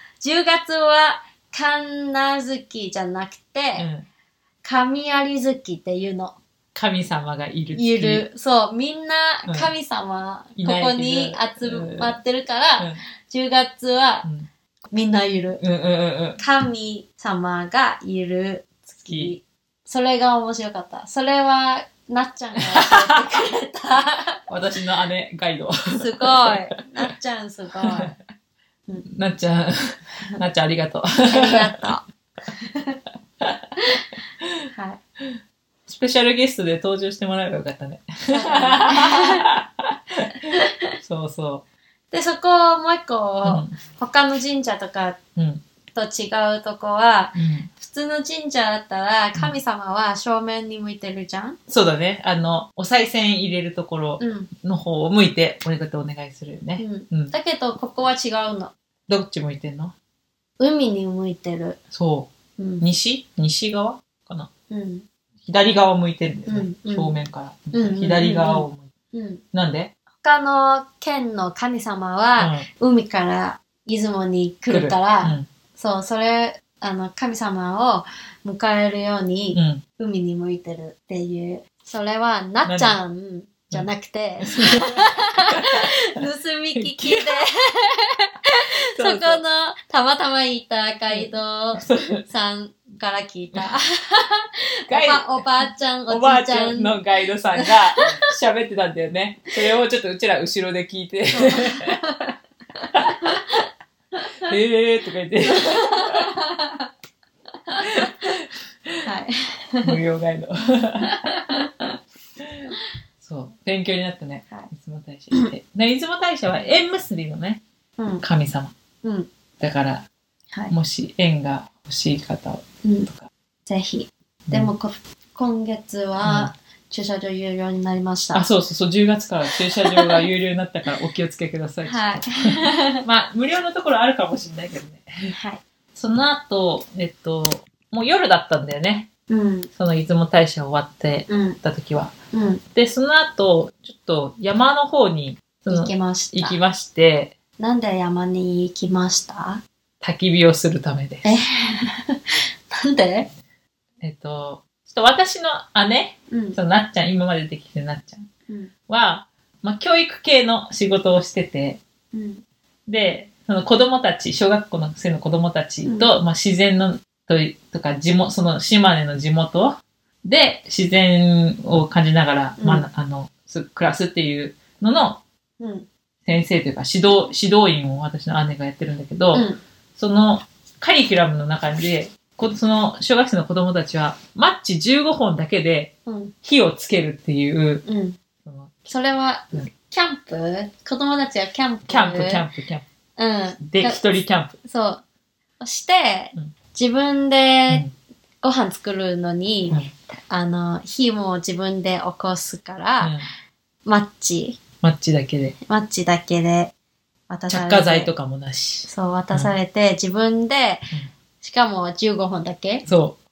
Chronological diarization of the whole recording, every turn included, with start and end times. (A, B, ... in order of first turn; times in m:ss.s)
0:00.2-0:03.9 A
0:03.8-0:04.0 B
0:04.6-0:06.4 A
0:06.7-0:08.2 B
0:07.7-0:14.3 A
0:10.6-0:12.2 B
0:14.9-0:15.6 A
0:15.6-0:16.4 B
0:16.4-0:24.4 A
0:19.1-0:19.3 B
0:22.7-0:23.1 B
0:24.5-0:26.5 B
0:25.9-0:28.1 A
0:27.8-0:28.2 B
0:29.0-0:31.8 B
0:31.3-0:32.0 A
0:32.6-0:33.0 A
0:33.8-0:34.1 A
0:34.7-0:35.0 A
0:35.2-0:40.5 B
0:38.3-0:39.5 A
0:40.5-0:40.9 A
0:41.0-0:41.6 B
0:42.1-0:45.2 A
0:43.4-0:43.7 B
0:45.4-0:45.6 B
0:45.9-0:51.6 A
0:47.4-0:47.7 B
0:51.7-0:57.3 B
0:54.2-0:54.5 A
0:56.8-0:58.7 A
0:59.1-0:59.9 B
1:00.6-1:01.8 A
1:01.9-1:04.5 B
1:02.6-1:02.8 A
1:04.7-1:05.0 A
1:05.4-1:08.9 B
1:06.5-1:07.2 A
1:07.7-1:09.4 A
1:09.5-1:09.9 B
1:10.2-1:38.2 A
1:12.4-1:12.7 B
1:14.7-1:15.5 B
1:19.5-1:19.8 B
1:22.6-1:23.0 B
1:24.4-1:26.2 B
1:26.7-1:27.3 B
1:28.9-1:29.4 B
1:31.1-1:32.2 B
1:34.9-1:42.0 B
1:41.3-1:44.5 A
1:42.9-1:43.4 B
1:44.4-1:46.3 B
1:45.4-1:46.9 A
1:47.6-1:48.3 A
1:47.8-1:49.0 B
1:49.0-1:50.0 A
1:49.8-1:51.2 B
1:51.0-1:51.7 A
1:52.4-1:57.6 B
1:58.0-1:58.2 A
1:58.2-1:58.7 B
1:59.0-1:59.3 A
1:59.6-2:00.1 B
2:00.7-2:03.3 B
2:02.8-2:03.1 A
2:03.7-2:08.4 A
2:06.2-2:06.5 B
2:08.3-2:15.4 B
2:11.8-2:13.0 A
2:15.3-2:15.6 A
2:15.9-2:19.1 B
2:19.3-2:19.7 A
2:19.7-2:22.1 B
2:21.3-2:21.6 A
2:22.3-2:22.6 A
2:22.7-2:27.3 B
2:25.7-2:26.6 A
2:27.6-2:29.6 A
2:30.0-2:31.3 B
2:31.2-2:33.3 A
2:34.0-2:38.3 B
2:36.3-2:36.6 A
2:38.9-2:41.8 B
2:42.1-2:42.4 A
2:42.9-2:55.2 B
2:45.8-2:46.1 A
2:52.6-2:52.9 A
2:55.6-2:55.9 A
2:56.2-3:07.8 B
2:59.3-2:59.6 A
3:06.0-3:06.3 A
3:07.8-3:08.2 A
3:08.4-3:08.9 B
3:08.9-3:12.4 A
3:11.9-3:12.8 B
3:13.2-3:14.0 A
3:13.6-3:14.6 B
3:14.6-3:15.0 A
3:15.6-3:17.8 A
3:18.4-3:23.2 A
3:23.0-3:23.3 B
3:23.8-3:24.6 A
3:24.8-3:25.6 B
3:25.7-3:26.7 A
3:27.3-3:28.1 A
3:27.5-3:29.5 B
3:28.8-3:32.8 A
3:32.8-3:33.2 B